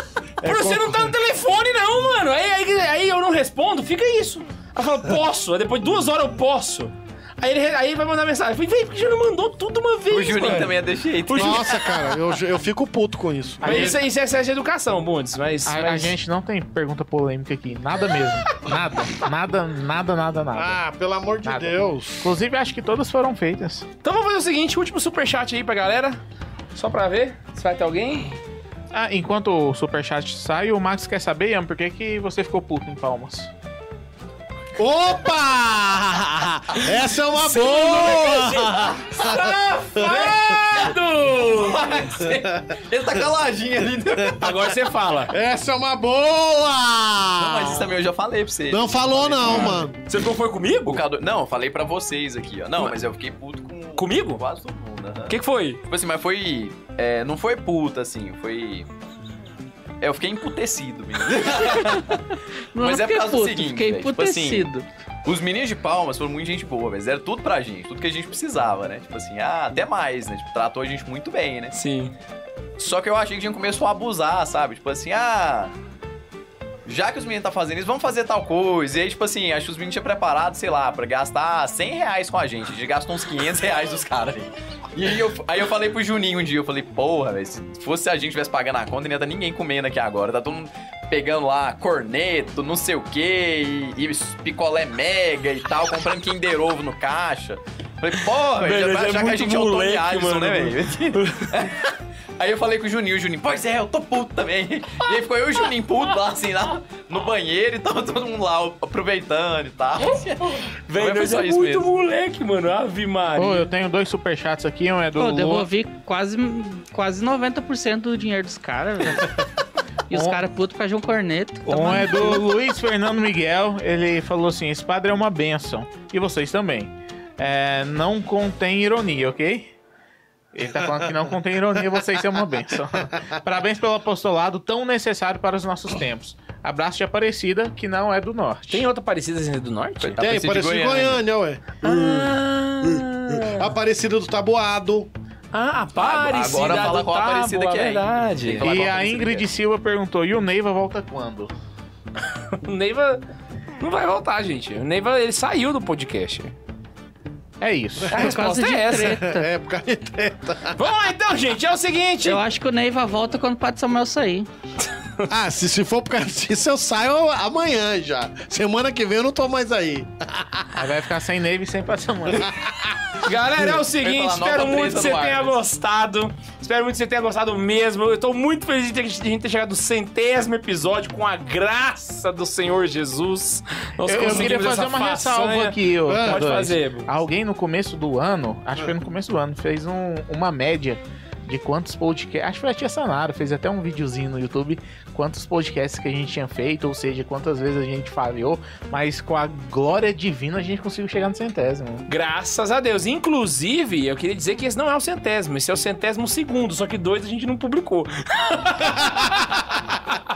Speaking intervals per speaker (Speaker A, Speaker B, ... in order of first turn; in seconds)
Speaker A: 0.4-1.1, 10.4-10.7, 11.3-14.0, 20.5-22.3, 34.8-40.8, 44.2-44.6, 45.3-48.0, 48.7-50.0, 130.9-131.2, 140.2-145.1, 158.0-160.8, 165.3-170.8, 172.4-172.9, 186.1-186.7, 208.8-209.9
Speaker B: 0.4-10.8, 11.3-11.9, 13.6-16.2, 24.0-26.2, 26.8-28.4, 37.3-42.0, 44.4-45.3, 49.4-51.0, 54.0-54.4, 55.3-55.8, 71.7-72.1, 98.5-101.7, 110.5-113.7, 138.7-140.2, 141.8-143.7, 145.5-148.7, 152.5-153.2, 153.8-156.5, 158.1-159.2, 160.8-162.4, 173.2-187.1, 202.1-210.0
Speaker C: 10.1-12.1, 41.4-44.5, 47.4-49.9, 50.9-58.9, 60.0-62.2, 62.8-64.7, 65.2-71.8, 72.8-75.7, 76.9-111.9, 140.0-141.2, 146.0-149.5, 174.0-175.6
Speaker D: 13.6-14.0, 15.7-20.8, 21.4-23.9, 28.9-33.5, 113.4-115.7, 120.1-120.4, 121.7-129.7, 130.5-138.9, 148.6-151.5, 157.6-158.2, 170.8-172.5, 184.0-202.1
Speaker E: 61.9-62.2, 62.7-64.8, 115.2-119.3, 120.1-122.5, 158.1-159.5, 162.2-164.5